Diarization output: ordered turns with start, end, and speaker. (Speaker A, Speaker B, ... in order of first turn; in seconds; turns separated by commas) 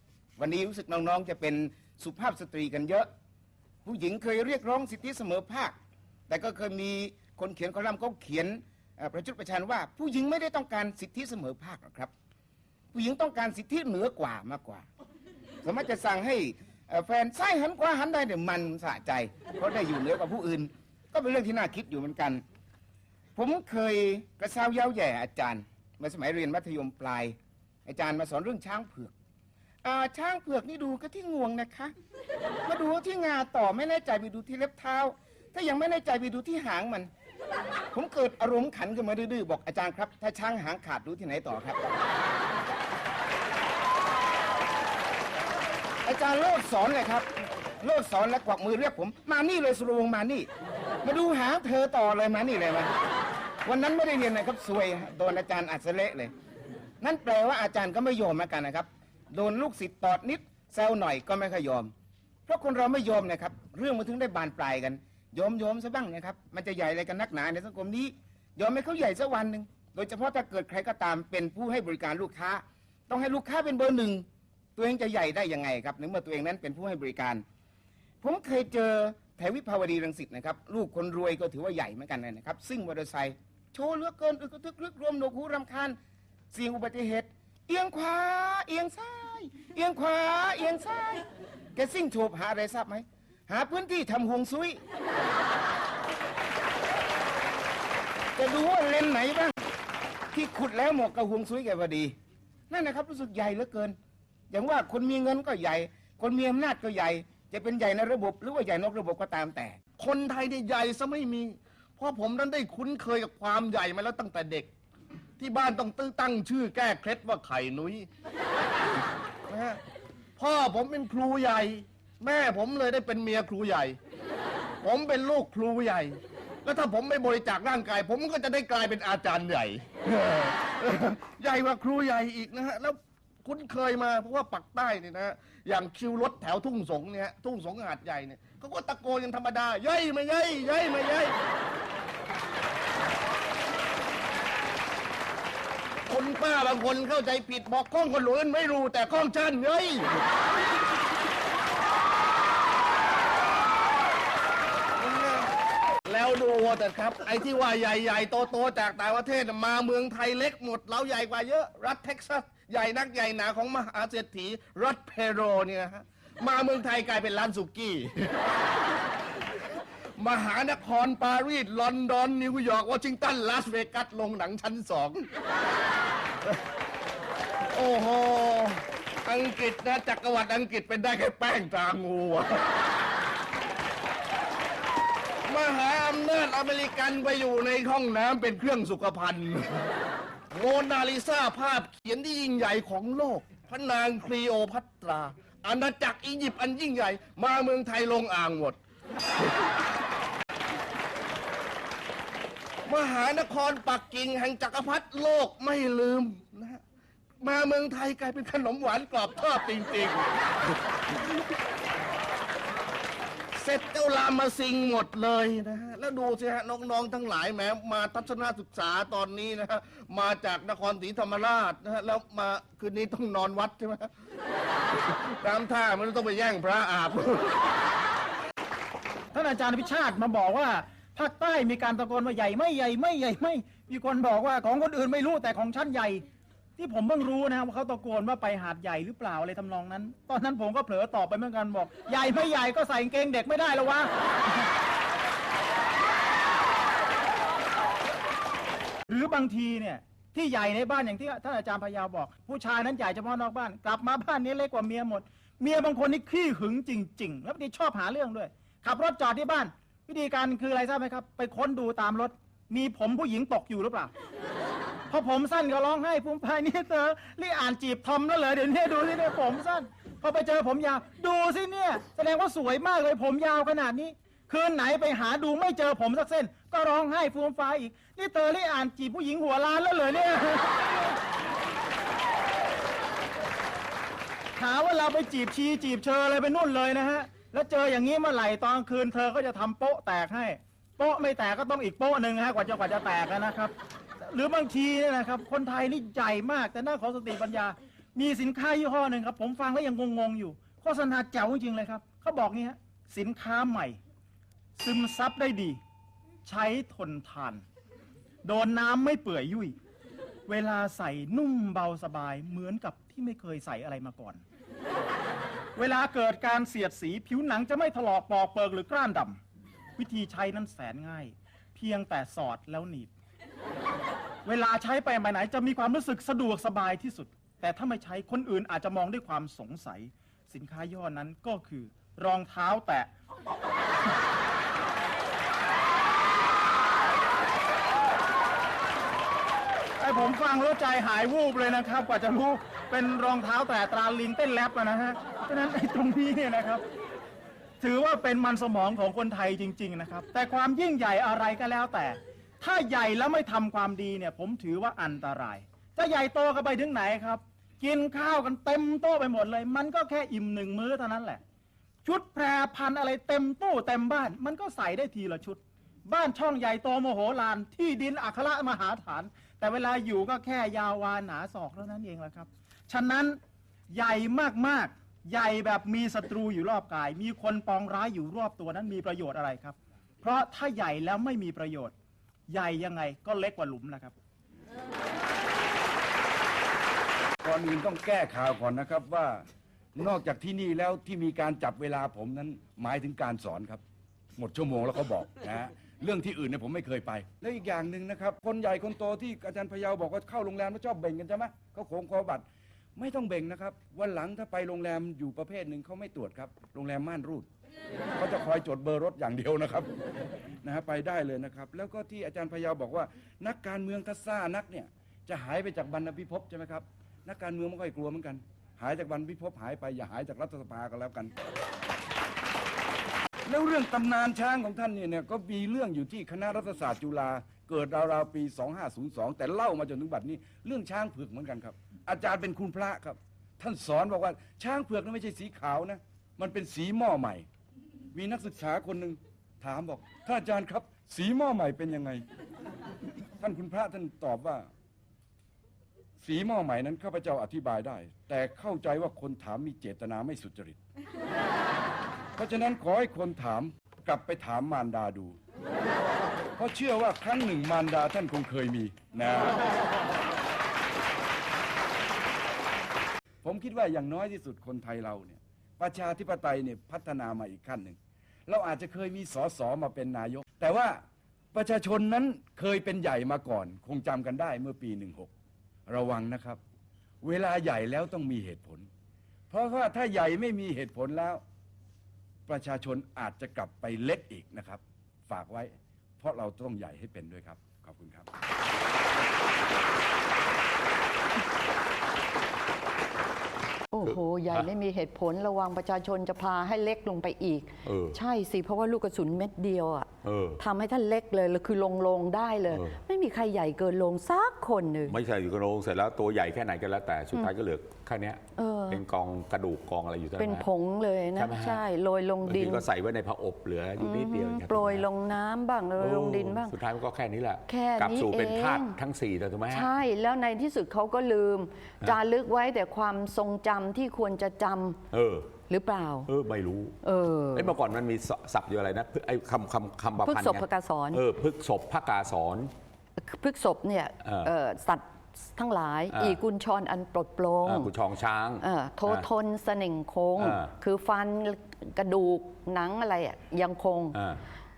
Speaker A: 0.4-3.1, Speaker A: 3.8-5.7, Speaker A: 6.3-12.1, Speaker A: 12.9-14.8, Speaker A: 15.6-22.4, Speaker A: 23.4-29.1, Speaker A: 29.8-31.9, Speaker A: 32.6-37.1, Speaker A: 37.9-41.8, Speaker A: 46.0-47.3, Speaker A: 47.8-50.5, Speaker A: 51.0-52.9, Speaker A: 53.6-56.3, Speaker A: 57.0-61.9, Speaker A: 62.5-74.2, Speaker A: 74.8-77.4, Speaker A: 78.2-86.0, Speaker A: 86.5-91.2, Speaker A: 91.8-94.8, Speaker A: 98.3-99.5, Speaker A: 100.3-102.1, Speaker A: 102.7-104.0, Speaker A: 104.5-109.8, Speaker B: 110.0-114.7, Speaker B: 115.4-118.1, Speaker B: 119.5-119.8, Speaker B: 120.4-124.0, Speaker B: 124.8-141.3, Speaker B: 146.1-150.2, Speaker B: 155.0-155.5, Speaker B: 156.1-168.4, Speaker B: 170.2-175.3, Speaker B: 177.7-182.7, Speaker B: 185.4-189.9, Speaker B: 190.5-198.8, Speaker B: 202.8-206.8, Speaker B: 207.4-210.3, Speaker B: 213.5-224.1, Speaker B: 225.3-227.6, Speaker C: 229.3-236.2, Speaker C: 236.8-244.1, Speaker C: 249.1-264.1, Speaker C: 265.1-280.8, Speaker C: 284.6-304.0, Speaker C: 304.8-305.8, Speaker C: 306.4-307.6, Speaker C: 308.4-309.7, Speaker C: 310.5-314.4, Speaker C: 315.8-319.4, Speaker C: 320.0-323.1, Speaker C: 324.4-333.1, Speaker C: 340.0-346.8, Speaker C: 347.8-361.4, Speaker C: 362.0-373.4, Speaker C: 373.9-381.9, Speaker C: 382.5-384.1, Speaker D: 387.4-393.8, Speaker D: 394.4-402.4, Speaker D: 402.9-407.5, Speaker D: 408.2-409.9, Speaker D: 410.6-421.3, Speaker D: 423.4-437.5, Speaker D: 438.1-442.2, Speaker D: 443.4-444.7, Speaker D: 446.2-450.8, Speaker D: 452.4-455.4, Speaker D: 456.6-459.6, Speaker D: 463.4-471.0, Speaker D: 471.5-475.3, Speaker D: 475.9-476.6, Speaker D: 477.2-478.9, Speaker D: 479.5-481.4, Speaker D: 482.5-488.3, Speaker E: 493.9-505.1, Speaker F: 494.0-494.7, Speaker F: 497.8-498.2, Speaker F: 500.2-500.6, Speaker F: 502.7-503.0, Speaker F: 505.1-510.6, Speaker E: 508.6-509.0, Speaker E: 510.4-512.9, Speaker F: 511.4-511.8, Speaker F: 512.4-515.0, Speaker E: 514.0-516.7, Speaker F: 516.0-519.9, Speaker E: 517.6-519.0, Speaker E: 519.7-525.0, Speaker F: 525.1-525.5, Speaker E: 525.7-526.3, Speaker F: 526.2-527.0, Speaker E: 527.0-527.7, Speaker F: 527.5-532.7, Speaker E: 530.2-531.2, Speaker E: 533.2-537.9, Speaker F: 534.2-534.5, Speaker F: 536.1-536.4, Speaker F: 537.6-539.3, Speaker E: 538.6-544.2, Speaker F: 540.4-540.7, Speaker F: 544.1-544.4